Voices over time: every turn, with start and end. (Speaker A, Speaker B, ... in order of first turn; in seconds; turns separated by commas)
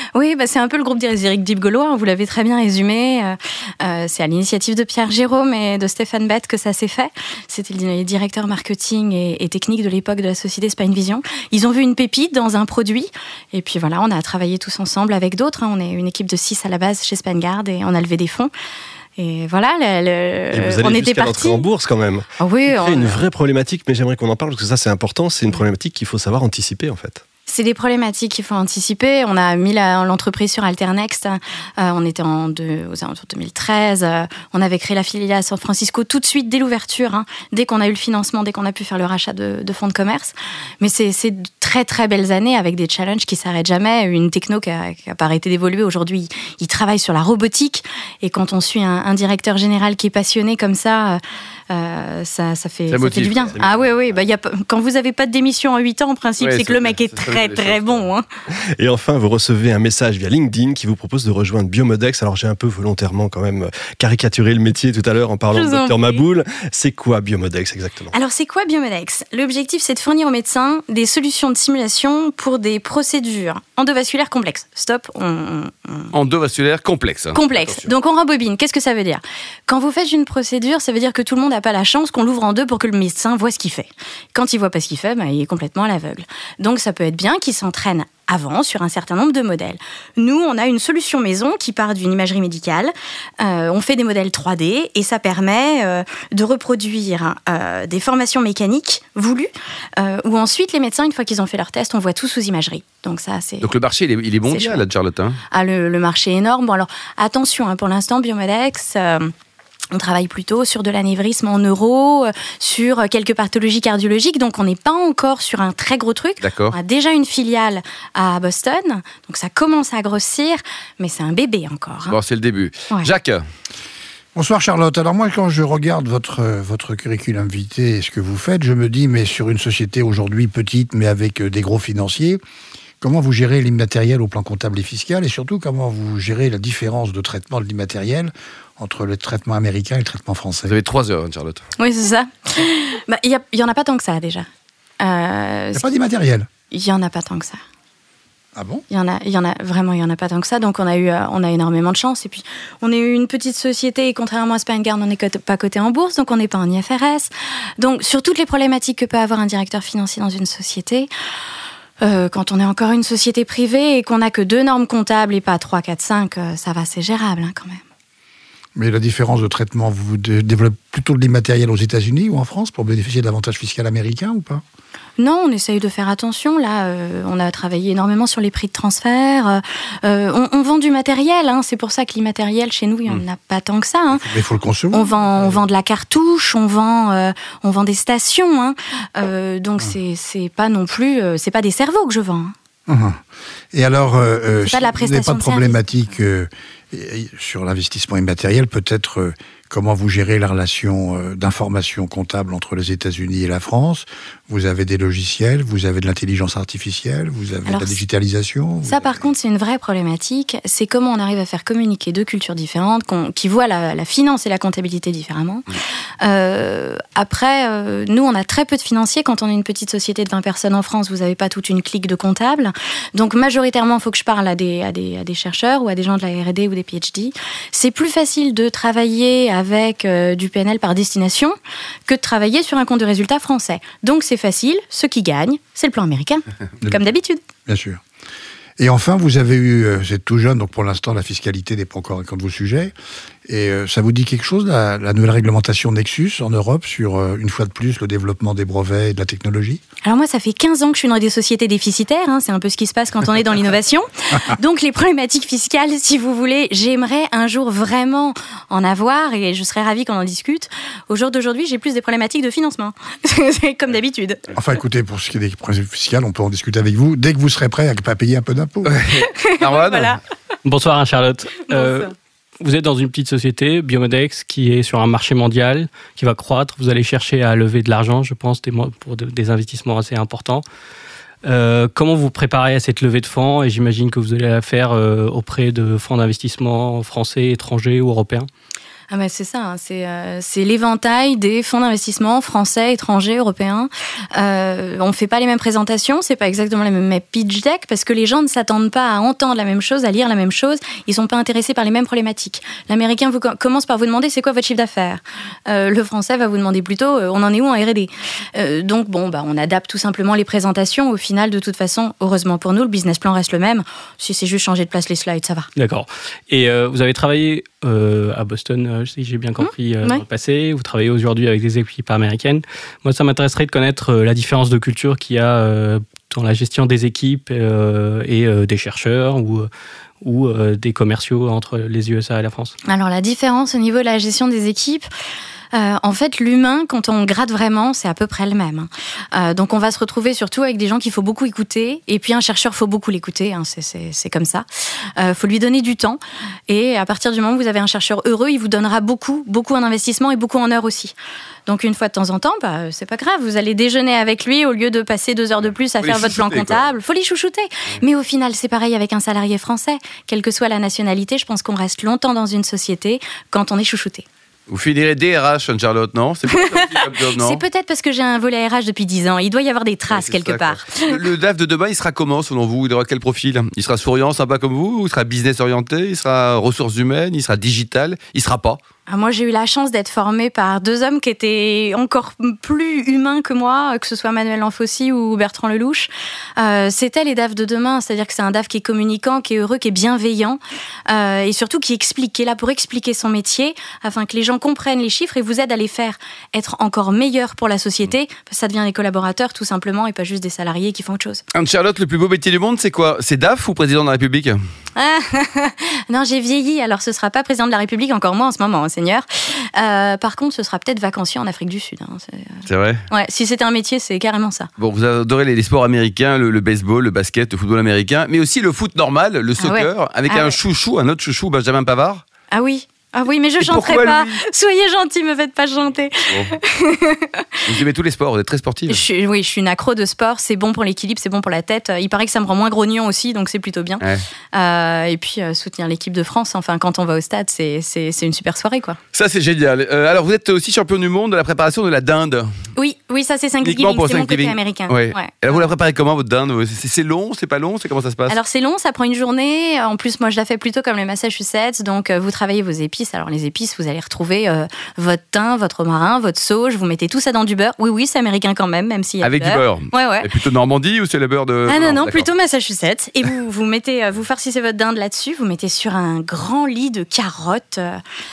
Speaker A: 0.1-18.5, Speaker A: 19.2-21.6, Speaker B: 20.5-27.2, Speaker A: 22.4-23.2, Speaker A: 27.5-58.3, Speaker C: 52.9-53.5, Speaker B: 53.4-54.2, Speaker C: 56.4-58.1, Speaker B: 58.8-68.1, Speaker A: 65.5-66.2, Speaker A: 68.1-76.1, Speaker C: 76.1-77.9, Speaker A: 77.3-103.7, Speaker C: 103.6-105.4, Speaker A: 104.4-104.8, Speaker A: 105.5-109.3, Speaker A: 109.9-122.2, Speaker C: 116.4-116.8, Speaker C: 122.1-123.4, Speaker D: 124.3-132.4, Speaker D: 133.0-140.8, Speaker C: 140.7-141.6, Speaker A: 141.8-144.5, Speaker A: 145.0-145.9, Speaker D: 145.8-146.5, Speaker A: 146.7-147.6, Speaker D: 148.6-148.8, Speaker A: 148.9-161.1, Speaker A: 162.0-167.8, Speaker D: 168.8-174.6, Speaker A: 175.2-184.3, Speaker D: 184.1-185.6, Speaker A: 184.9-192.5, Speaker D: 192.9-193.2, Speaker D: 193.7-209.2, Speaker A: 194.6-196.2, Speaker A: 207.7-208.0, Speaker A: 208.8-215.7, Speaker A: 216.2-231.6, Speaker A: 232.1-237.4, Speaker D: 236.8-237.1, Speaker D: 237.7-238.0, Speaker D: 238.8-242.9, Speaker D: 243.5-249.8, Speaker A: 250.0-264.4, Speaker D: 264.5-268.9, Speaker C: 268.9-270.2, Speaker A: 269.2-270.2, Speaker E: 270.6-280.6, Speaker A: 271.7-272.1, Speaker E: 281.4-288.5, Speaker A: 289.1-315.7, Speaker E: 315.8-329.7, Speaker A: 319.6-320.2, Speaker E: 330.2-332.7, Speaker A: 332.9-335.1, Speaker A: 335.7-344.6, Speaker A: 345.2-351.1, Speaker A: 351.7-364.2, Speaker C: 356.0-356.8, Speaker C: 364.7-367.6, Speaker A: 366.5-371.2, Speaker C: 370.1-378.8, Speaker A: 379.1-401.4, Speaker C: 401.5-404.6, Speaker A: 405.0-414.7, Speaker C: 412.7-413.0, Speaker C: 414.8-422.2, Speaker A: 419.6-420.6, Speaker A: 422.5-427.6, Speaker C: 423.6-424.4, Speaker C: 426.3-426.6, Speaker C: 427.6-429.0, Speaker A: 428.9-439.0, Speaker C: 439.1-442.5, Speaker A: 442.8-445.7, Speaker C: 443.6-448.4, Speaker A: 448.3-460.3, Speaker C: 459.2-462.3, Speaker A: 461.7-468.0